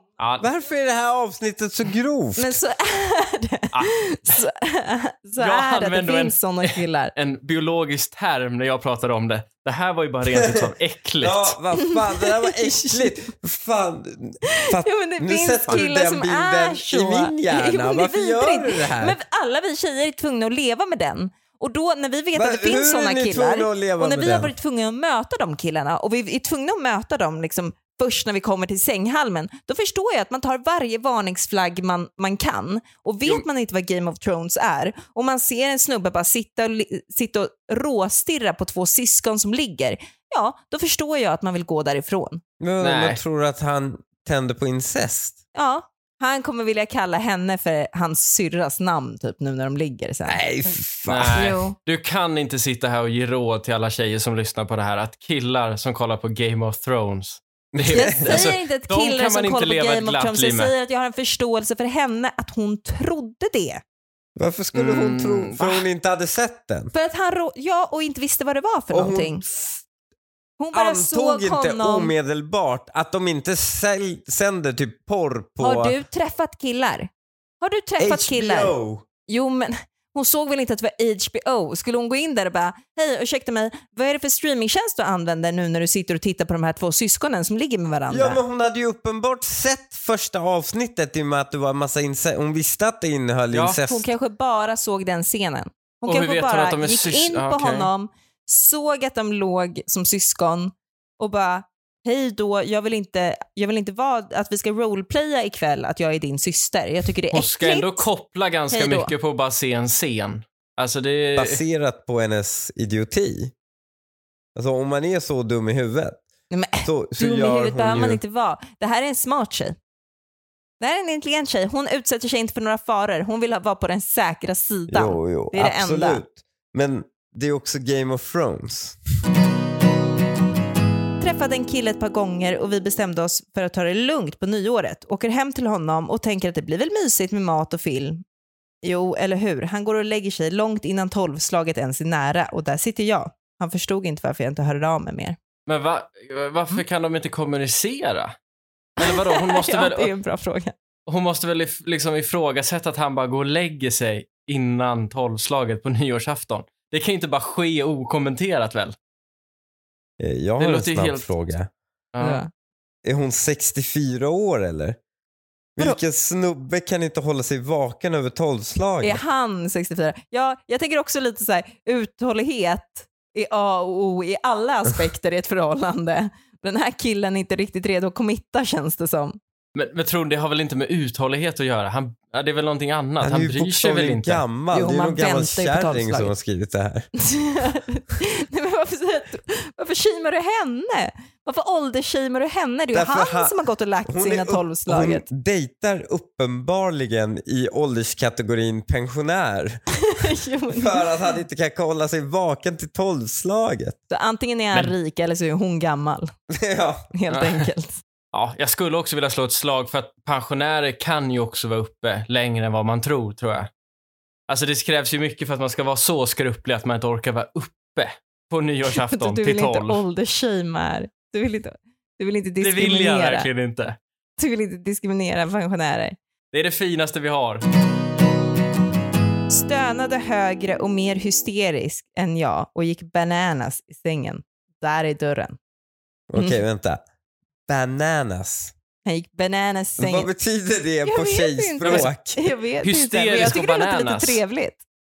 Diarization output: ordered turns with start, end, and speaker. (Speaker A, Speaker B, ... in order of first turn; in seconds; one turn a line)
Speaker A: 0.2-0.5
Speaker B: 0.4-2.6
Speaker C: 2.4-7.1
Speaker A: 3.7-4.4
Speaker A: 5.4-11.6
Speaker B: 11.2-19.2
Speaker C: 11.8-13.1
Speaker C: 14.6-42.4
Speaker B: 22.4-24.5
Speaker B: 42.6-45.4
Speaker A: 42.8-43.2
Speaker C: 45.5-50.4
Speaker B: 50.3-51.5
Speaker A: 51.1-60.7
Speaker C: 51.3-51.8
Speaker B: 57.7-58.5
Speaker C: 57.9-63.8
Speaker B: 64.4-66.9
Speaker A: 64.7-65.8
Speaker C: 66.9-69.4
Speaker B: 68.9-69.8
Speaker C: 70.6-72.1
Speaker B: 70.7-76.0
Speaker C: 75.6-77.1
Speaker C: 77.6-78.8
Speaker B: 78.0-79.0
Speaker C: 79.3-88.4
Speaker B: 88.1-94.1
Speaker A: 93.5-93.8
Speaker C: 93.8-108.1
Speaker A: 96.1-97.9
Speaker A: 107.3-111.6
Speaker C: 108.7-109.1
Speaker B: 111.4-113.5
Speaker B: 114.5-116.2
Speaker C: 116.5-119.8
Speaker B: 116.8-118.2
Speaker C: 120.8-126.2
Speaker B: 124.9-129.0
Speaker C: 131.2-138.2
Speaker C: 138.8-145.4
Speaker A: 145.7-148.4
Speaker A: 149.0-150.1
Speaker C: 149.0-150.8
Speaker A: 151.1-158.9
Speaker B: 160.2-161.7
Speaker A: 160.6-161.3
Speaker A: 162.1-162.4
Speaker C: 162.2-162.5
Speaker B: 163.0-165.0
Speaker B: 165.8-169.2
Speaker C: 169.0-179.4
Speaker A: 179.8-184.4
Speaker B: 183.2-187.1
Speaker C: 184.7-186.3
Speaker C: 187.2-195.3
Speaker B: 192.9-193.6
Speaker B: 194.1-199.8
Speaker C: 200.0-201.1
Speaker B: 200.7-204.0
Speaker C: 204.1-206.3
Speaker B: 206.5-207.1
Speaker C: 207.1-208.0
Speaker A: 207.3-207.7
Speaker A: 208.3-213.7
Speaker A: 214.5-220.0
Speaker C: 218.9-223.5
Speaker A: 222.6-224.0
Speaker C: 224.4-226.2
Speaker A: 226.5-227.6
Speaker C: 229.5-235.6
Speaker B: 236.3-237.0
Speaker B: 237.7-238.7
Speaker C: 239.1-240.3
Speaker B: 240.0-242.4
Speaker C: 241.1-244.8
Speaker A: 241.8-242.1
Speaker A: 242.8-244.4